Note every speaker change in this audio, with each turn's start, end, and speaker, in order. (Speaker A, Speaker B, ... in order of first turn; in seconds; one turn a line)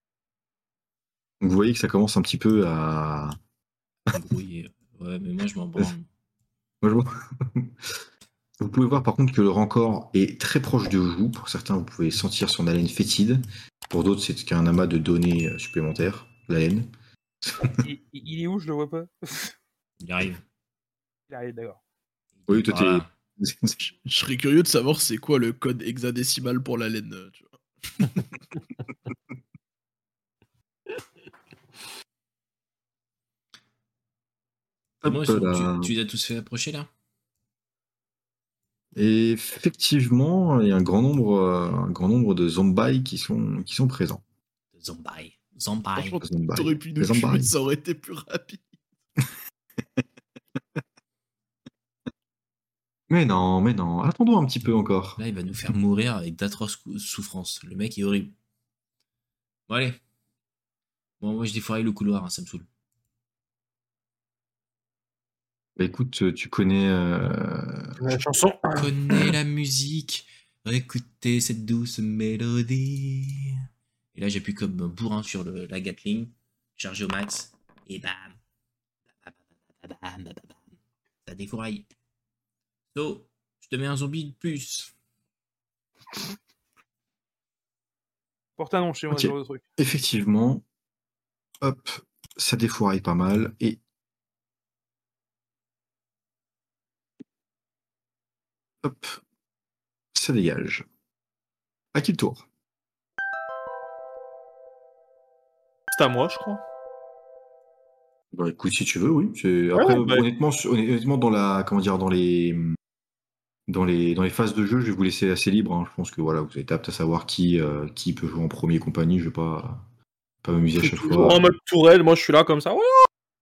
Speaker A: 1.4-3.4
Speaker B: 4.1-6.0
Speaker A: 6.8-7.8
Speaker A: 8.6-16.9
Speaker A: 17.5-17.8
Speaker C: 17.8-19.5
Speaker B: 20.0-20.4
Speaker C: 21.3-21.8
Speaker B: 22.4-23.1
Speaker A: 22.5-23.9
Speaker D: 24.1-28.1
Speaker A: 35.0-35.9
Speaker B: 35.0-36.9
Speaker A: 39.0-44.2
Speaker B: 44.8-46.2
Speaker D: 46.0-48.7
Speaker A: 46.2-47.5
Speaker A: 53.1-55.2
Speaker B: 55.2-58.3
Speaker B: 59.7-60.0
Speaker B: 61.2-62.7
Speaker A: 65.8-67.9
Speaker E: 68.0-69.3
Speaker B: 68.8-73.6
Speaker B: 74.2-78.4
Speaker B: 79.2-80.7
Speaker B: 81.3-81.9
Speaker B: 82.9-84.9
Speaker C: 88.6-89.6
Speaker A: 89.1-90.6
Speaker A: 91.6-93.8
Speaker A: 98.8-99.2
Speaker A: 100.1-100.8
Speaker A: 101.9-102.5
Speaker E: 105.9-106.6
Speaker A: 108.3-112.8
Speaker E: 109.8-110.2
Speaker A: 113.7-119.8
Speaker A: 120.4-121.5
Speaker E: 120.8-123.1